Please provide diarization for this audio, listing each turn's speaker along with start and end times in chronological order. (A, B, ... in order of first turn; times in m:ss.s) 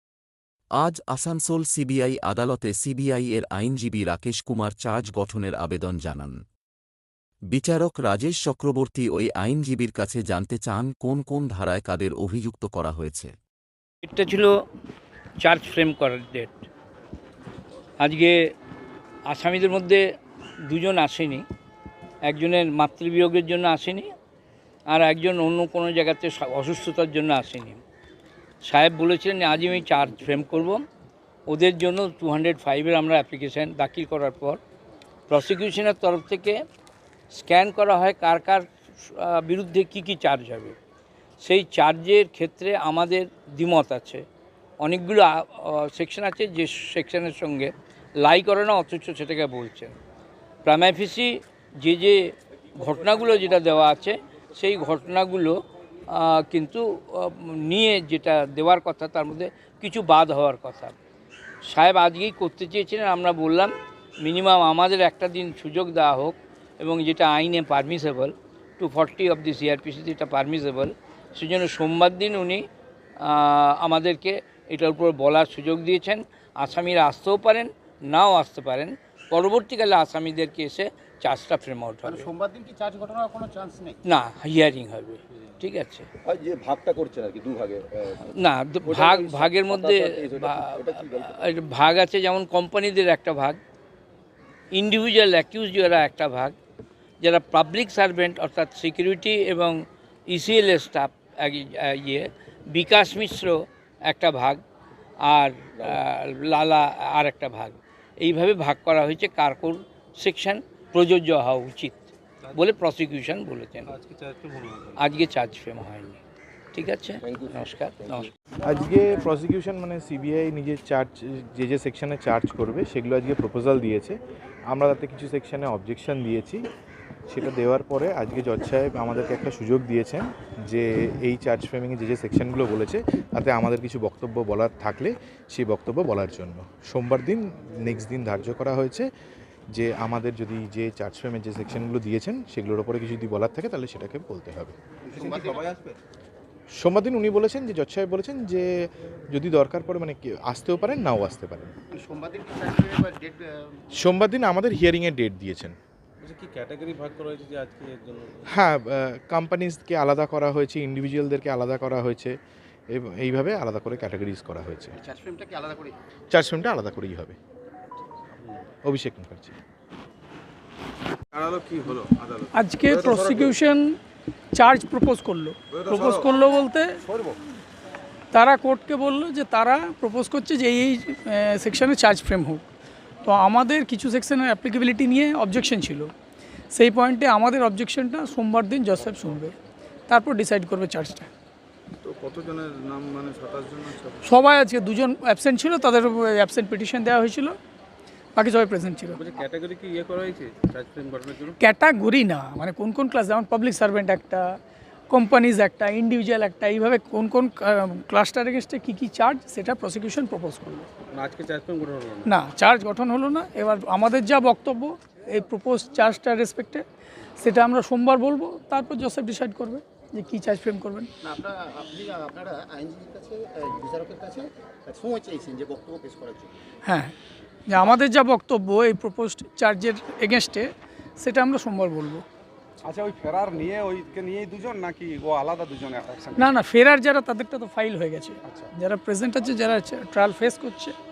0:00.8-0:06.4 A
0:07.5-0:13.3 A
0:14.0-0:14.5 B
0:15.4-0:16.6 B
0:18.0-0:18.5 B
0:19.3-0:20.0 B
0:20.7-0:21.4 B
0:22.3-0:24.1 B
0:24.9-0:27.8 B
0:28.6-0:30.8 B
0:31.5-0:34.6 B
0:35.3-0:36.6 B
0:37.3-0:40.8 B
0:41.4-0:44.2 B
0:44.8-0:47.7 B
0:48.2-0:49.9 B
0:50.6-0:51.3 B
0:51.8-0:52.2 B
0:52.8-0:55.5 B
0:56.1-1:00.9 B
1:01.7-1:03.7 B
1:04.2-1:12.6 B
1:13.2-1:22.3 B
1:22.0-1:24.0 C
1:24.1-1:26.1 B
1:26.2-1:28.2 D
1:28.3-1:33.6 B
1:28.8-1:31.4 D
1:34.7-1:36.5 B
1:37.2-1:39.7 B
1:40.3-1:43.6 B
1:44.1-1:44.6 B
1:45.2-1:52.0 B
1:52.5-1:53.9 B
1:53.9-1:55.0 E
1:55.0-1:56.2 B
1:56.7-1:58.3 B
1:57.2-1:58.3 D
1:58.6-2:04.2 F
2:04.7-2:06.6 F
2:07.3-2:19.1 F
2:19.7-2:24.8 F
2:25.0-2:25.7 C
2:25.3-2:26.0 D
2:26.8-2:31.7 F
2:31.9-2:34.0 C
2:34.0-2:35.8 F
2:36.2-2:38.6 E
2:38.5-2:42.4 F
2:42.9-2:45.0 F
2:45.0-2:46.0 C
2:46.3-2:47.4 F
2:48.8-2:49.5 F
2:51.3-2:53.6 E
2:52.5-2:54.0 G
2:54.5-2:57.0 G
2:57.0-2:57.4 H
2:58.3-3:02.6 G
3:03.2-3:06.1 G
3:06.7-3:09.5 G
3:09.0-3:09.5 E
3:10.1-3:11.3 G
3:12.0-3:14.3 E
3:14.2-3:17.6 G
3:18.3-3:19.2 G
3:19.1-3:21.6 E
3:21.6-3:24.6 G
3:25.1-3:30.9 G
3:31.1-3:32.3 E
3:32.2-3:36.8 G
3:37.4-3:41.1 G
3:41.2-3:46.6 C
3:46.8-3:47.1 G
3:47.7-3:52.2 G
3:52.8-3:56.4 H
3:56.4-4:00.9 G